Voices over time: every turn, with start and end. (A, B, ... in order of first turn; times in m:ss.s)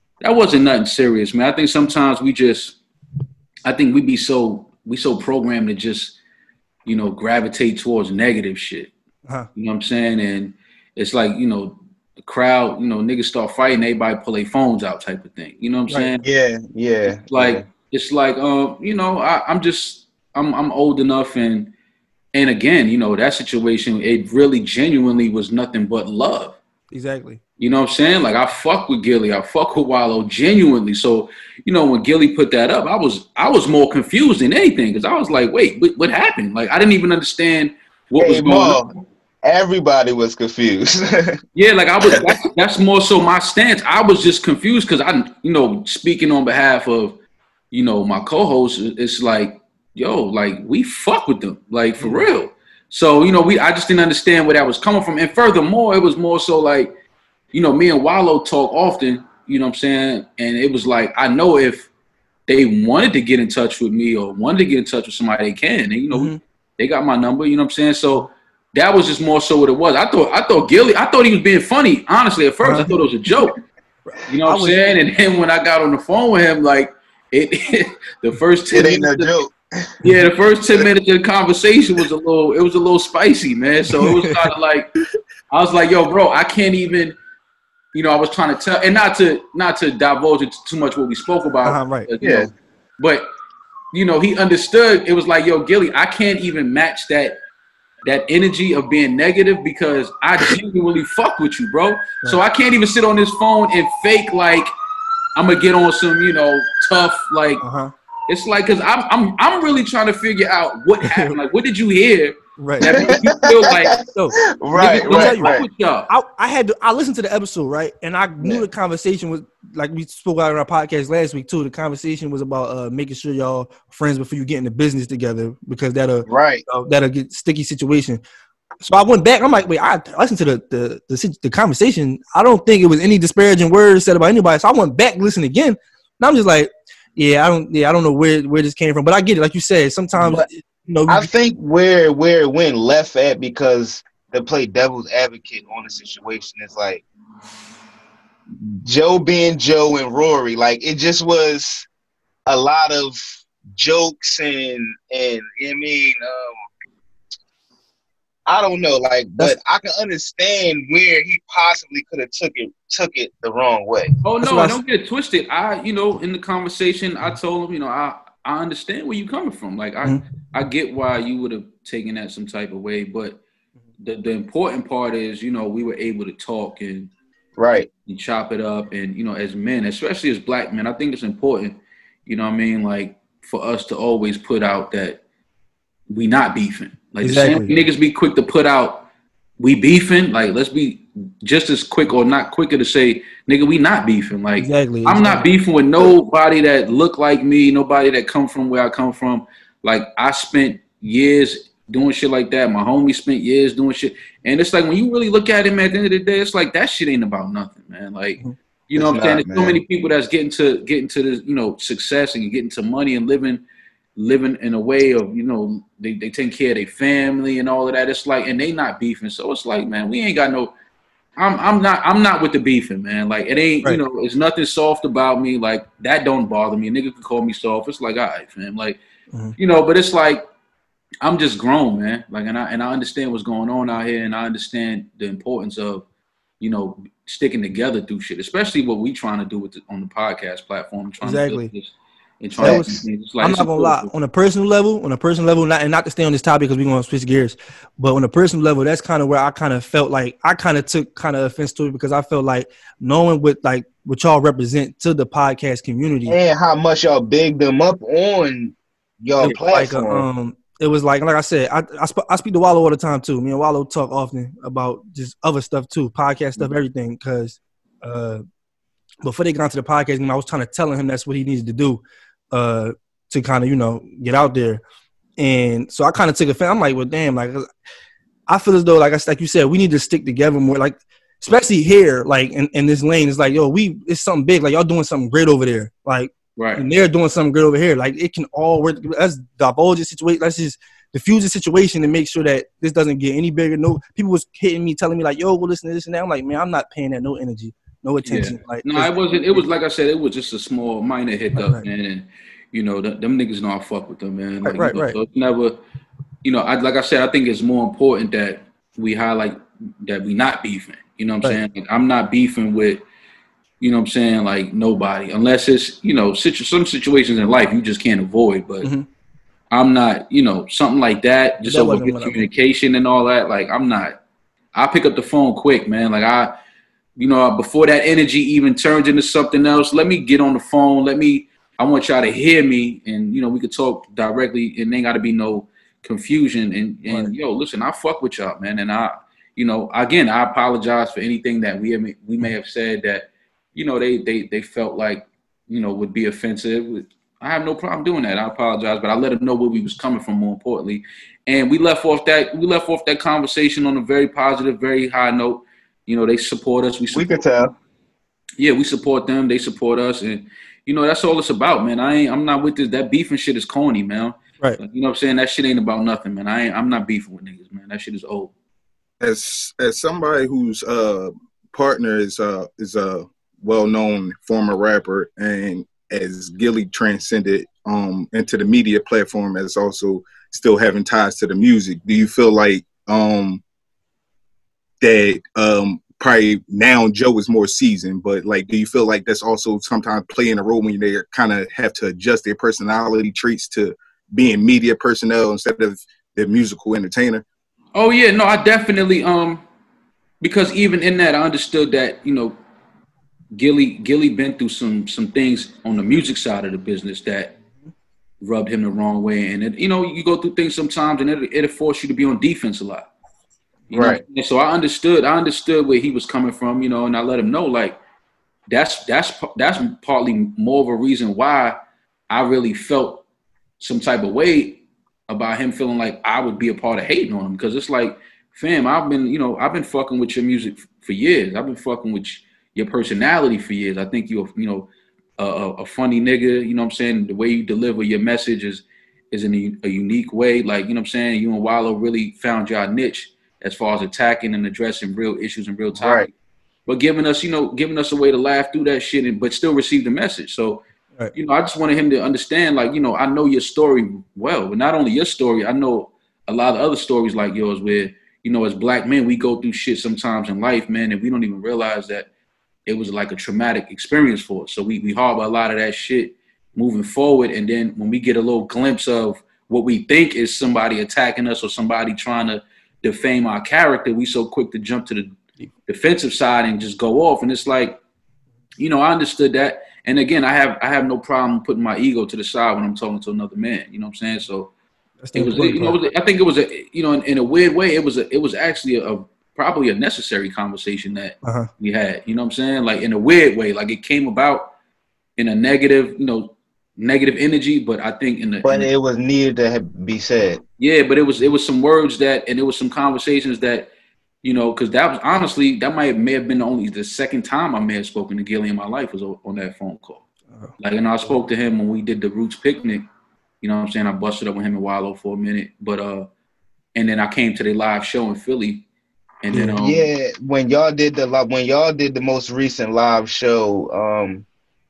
0:00.2-0:02.8 A
0:03.6-0:06.2 A
0:06.8-0:08.9 A
0:09.6-0:16.3 A
0:16.2-0:17.6 B
0:17.2-0:21.7 A
0:22.3-0:26.6 A
0:26.9-0:27.4 C
0:27.6-0:38.8 A
0:38.2-0:41.4 B
0:41.6-0:47.1 A
0:47.7-0:56.9 A
0:52.0-0:52.2 C
0:57.5-1:01.9 A
1:02.5-1:13.6 A
1:06.1-1:06.4 C
1:12.6-1:12.9 C
1:14.1-1:15.0 C
1:14.3-1:19.4 A
1:18.7-1:19.9 B
1:20.0-1:24.9 A
1:23.9-1:24.5 C
1:25.5-1:27.1 A
1:27.9-1:33.2 A
1:31.6-1:32.1 C
1:32.2-1:32.5 B
1:33.9-1:37.4 A
1:38.0-1:44.7 A
1:45.3-1:47.6 A
1:47.6-1:47.9 C
1:48.3-1:54.0 A
1:51.0-1:51.4 C
1:52.6-1:53.1 C
1:52.8-1:55.7 B
1:54.1-1:55.6 C
1:54.7-1:56.1 A
1:56.1-2:08.2 C
2:06.2-2:06.6 B
2:08.8-2:21.3 C
2:21.1-2:27.0 B
2:28.8-2:31.9 B
2:32.4-2:33.2 B
2:33.7-2:36.6 B
2:38.4-2:44.1 B
2:44.2-2:53.4 A
2:44.4-2:44.8 C
2:54.0-2:57.1 A
2:57.6-2:57.9 B
2:58.0-3:05.2 A
3:06.1-3:09.0 A
3:07.2-3:07.7 C
3:09.6-3:33.6 A
3:14.6-3:15.4 C
3:29.0-3:29.8 B
3:34.2-3:40.7 A
3:41.4-3:49.0 A
3:49.6-3:50.4 A
3:51.2-3:56.0 A
3:56.6-4:04.1 A
4:01.2-4:01.7 C
4:02.6-4:02.9 B
4:02.6-4:16.4 C
4:16.3-4:20.2 B
4:19.4-4:28.4 C
4:29.2-4:34.8 C
4:35.4-4:37.7 C
4:38.5-4:59.6 C
4:46.6-4:46.8 A
4:58.2-5:05.8 A
5:01.5-5:01.8 C
5:04.6-5:05.2 C
5:06.4-5:13.0 A
5:13.8-5:18.9 A
5:18.8-5:19.1 C
5:19.7-5:24.2 A
5:21.6-5:22.5 C
5:24.7-5:26.5 A
5:27.2-5:57.3 A
5:37.1-5:37.3 C
5:57.1-5:57.7 B
5:58.6-6:08.5 A
6:09.2-6:23.6 D
6:25.0-6:37.4 D
6:37.9-6:39.6 A
6:40.4-6:42.6 A
6:43.5-6:47.5 A
6:48.4-6:53.1 A
6:53.9-6:58.0 A
6:53.9-6:54.2 B
6:58.7-7:01.8 A
7:02.3-7:03.2 A
7:03.8-7:26.3 A
7:26.0-7:26.3 B
7:26.9-7:30.8 A
7:31.3-7:42.3 A
7:42.8-7:55.3 A
7:55.9-7:58.0 A
7:58.8-8:04.7 A
8:05.2-8:06.0 C
8:05.3-8:14.7 A
8:11.4-8:11.7 C
8:15.4-8:18.9 A
8:18.6-8:20.6 B
8:20.8-8:23.9 A
8:24.4-8:30.2 A
8:30.8-8:33.0 A
8:33.6-8:36.3 A
8:36.9-8:38.8 A
8:39.4-8:40.1 A
8:39.7-8:44.4 B